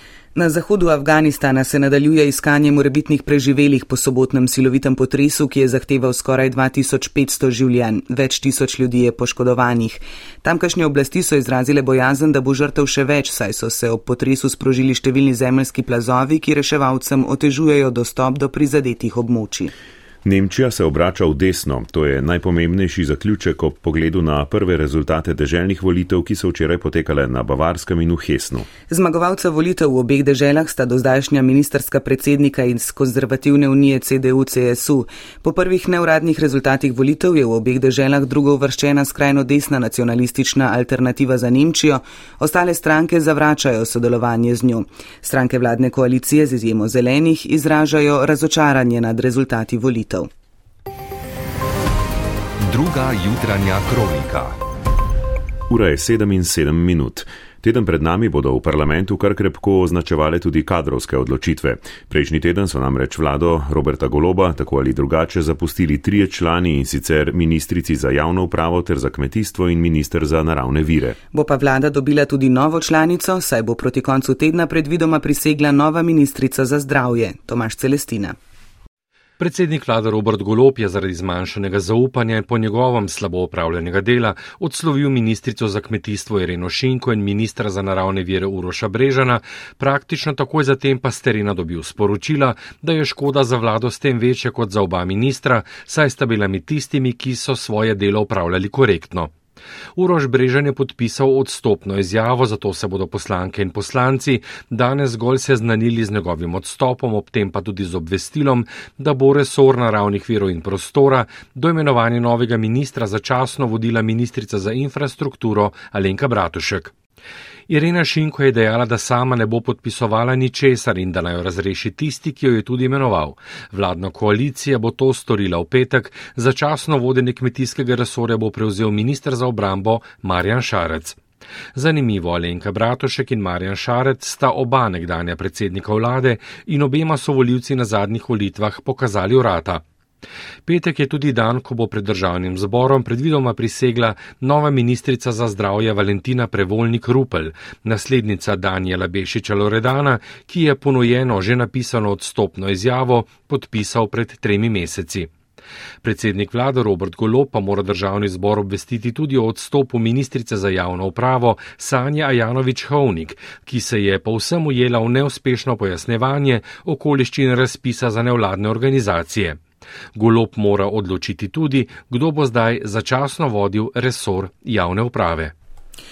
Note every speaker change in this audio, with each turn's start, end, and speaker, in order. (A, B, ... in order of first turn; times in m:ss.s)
0:00.4-0:19.7 A
0:20.2-0:28.7 B
0:28.8-0:50.3 A
0:52.6-0:54.6 C
0:55.7-1:11.2 B
1:11.3-1:18.4 A
1:19.4-1:39.3 D
1:40.0-1:56.9 D
1:57.7-2:11.2 D
2:11.8-2:19.8 D
2:20.7-2:35.3 D
2:36.0-2:49.6 D
2:50.2-2:55.5 D